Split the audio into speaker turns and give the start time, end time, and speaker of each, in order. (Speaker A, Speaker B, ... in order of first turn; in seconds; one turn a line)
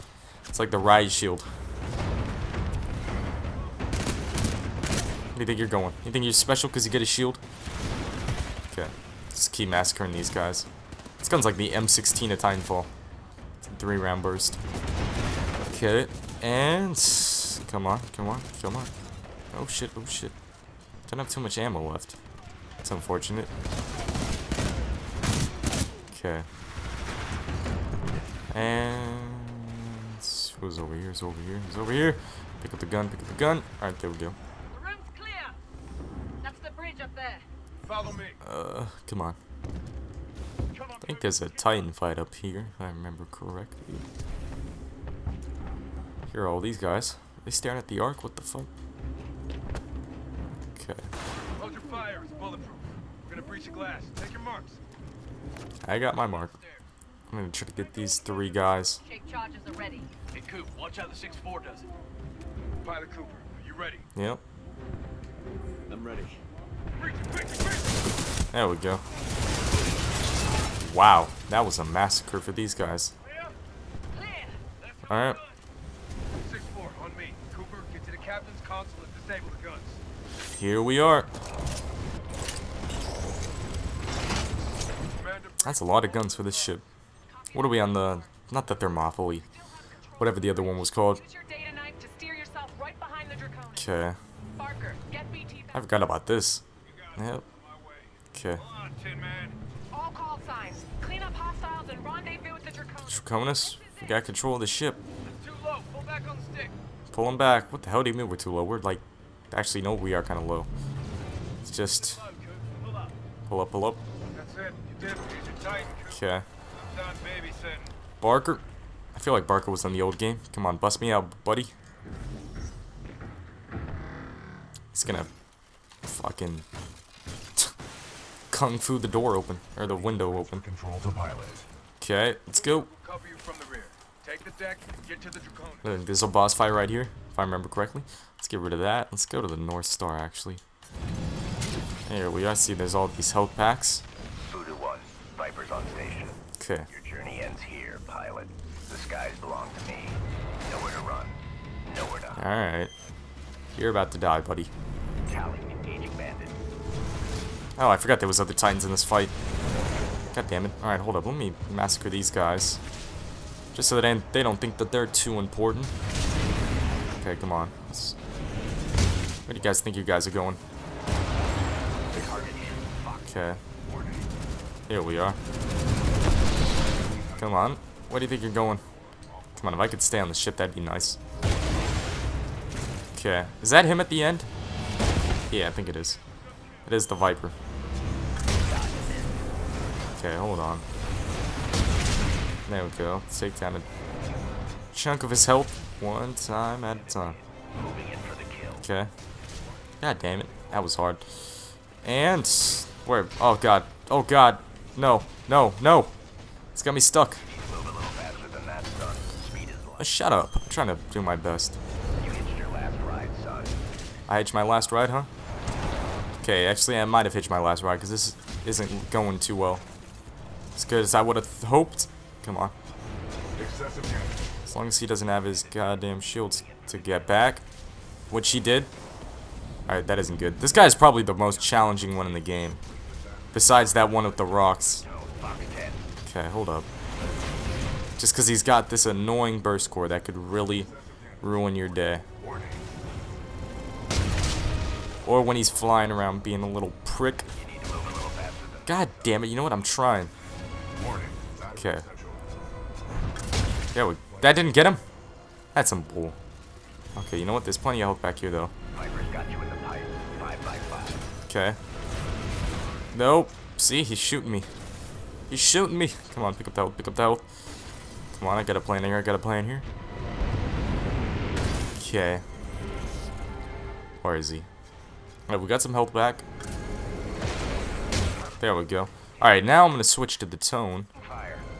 Speaker A: 0.5-1.5
Speaker A: 5.3-7.4
Speaker A: 8.7-10.7
Speaker A: 11.2-12.9
Speaker A: 13.6-14.6
Speaker A: 15.7-18.9
Speaker A: 19.5-20.4
Speaker A: 21.1-22.2
Speaker A: 22.8-23.5
Speaker A: 26.1-26.5
Speaker A: 28.5-34.4
Speaker B: 34.7-35.6
Speaker B: 36.4-37.5
Speaker C: 37.8-38.4
Speaker A: 38.4-39.4
Speaker C: 40.8-41.4
Speaker A: 41.0-44.0
Speaker A: 46.3-48.7
Speaker A: 50.8-51.1
Speaker C: 51.6-54.8
Speaker A: 55.8-56.6
Speaker A: 57.3-59.0
Speaker B: 59.0-60.1
Speaker D: 60.3-61.9
Speaker C: 62.8-64.0
Speaker A: 64.2-64.4
Speaker D: 65.9-66.4
Speaker C: 67.0-68.0
Speaker A: 68.5-69.0
Speaker A: 70.8-73.1
Speaker C: 73.3-73.5
Speaker C: 74.9-75.4
Speaker A: 75.1-75.4
Speaker C: 76.4-80.0
Speaker A: 80.5-81.3
Speaker C: 85.2-86.8
Speaker A: 85.6-86.8
Speaker B: 87.3-88.2
Speaker A: 87.5-89.5
Speaker B: 89.6-93.9
Speaker A: 90.2-91.2
Speaker A: 93.8-94.2
Speaker B: 94.6-95.8
Speaker A: 95.7-96.6
Speaker C: 96.9-99.6
Speaker A: 97.2-97.5
Speaker A: 98.3-98.6
Speaker B: 99.9-104.0
Speaker A: 103.0-105.0
Speaker C: 105.2-106.8
Speaker A: 107.1-110.7
Speaker A: 111.6-112.2
Speaker C: 112.0-113.2
Speaker A: 113.5-114.0
Speaker C: 114.3-116.2
Speaker A: 116.1-116.5
Speaker C: 116.8-117.9
Speaker A: 118.2-118.6
Speaker A: 119.1-121.7
Speaker A: 124.9-125.3
Speaker A: 126.0-126.7
Speaker A: 128.5-130.6
Speaker E: 129.8-131.7
Speaker A: 132.0-132.9
Speaker C: 132.6-135.9
Speaker A: 135.8-140.6
Speaker A: 142.1-144.0
Speaker F: 144.4-151.4
Speaker A: 146.6-146.9
Speaker F: 151.9-152.4
Speaker A: 152.3-152.9
Speaker A: 153.7-154.7
Speaker F: 155.3-156.6
Speaker A: 157.8-159.3
Speaker A: 160.3-162.8
Speaker A: 163.7-165.9
Speaker A: 167.2-168.2
Speaker A: 169.5-170.6
Speaker E: 172.1-172.7
Speaker F: 172.1-173.3
Speaker A: 173.2-173.6
Speaker E: 173.8-174.4
Speaker A: 174.9-175.4
Speaker E: 176.9-177.7
Speaker A: 177.4-178.8
Speaker A: 179.6-181.2
Speaker A: 183.1-184.5
Speaker A: 185.5-186.2
Speaker A: 186.8-187.6
Speaker F: 188.6-189.4
Speaker A: 190.1-190.8
Speaker A: 192.7-193.8
Speaker A: 194.9-197.4
Speaker F: 197.0-198.8
Speaker A: 198.8-199.1
Speaker A: 200.0-206.1
Speaker A: 206.8-207.4
Speaker F: 207.4-210.1
Speaker A: 210.0-211.8
Speaker F: 212.1-213.8
Speaker A: 214.3-215.3
Speaker A: 216.4-219.8
Speaker A: 220.8-222.7
Speaker E: 223.6-224.4
Speaker A: 224.7-227.6
Speaker F: 225.6-227.4
Speaker A: 228.3-228.9
Speaker A: 229.9-232.8
Speaker E: 231.5-234.6
Speaker A: 233.5-235.0
Speaker F: 234.5-236.1
Speaker A: 236.2-236.9
Speaker A: 238.2-240.9
Speaker E: 240.5-242.9
Speaker A: 241.4-242.2
Speaker A: 245.2-247.5
Speaker F: 247.6-249.3
Speaker A: 248.9-250.3
Speaker E: 251.0-252.5
Speaker A: 251.8-252.1
Speaker A: 253.9-255.0
Speaker E: 254.3-254.7
Speaker A: 255.8-256.4
Speaker A: 257.2-258.7
Speaker F: 258.9-261.2
Speaker A: 261.5-261.8
Speaker A: 263.1-264.7
Speaker A: 265.5-267.5
Speaker A: 268.3-269.9
Speaker A: 272.0-272.4
Speaker A: 274.2-274.7
Speaker A: 275.5-276.4
Speaker A: 278.6-281.1
Speaker F: 281.2-281.7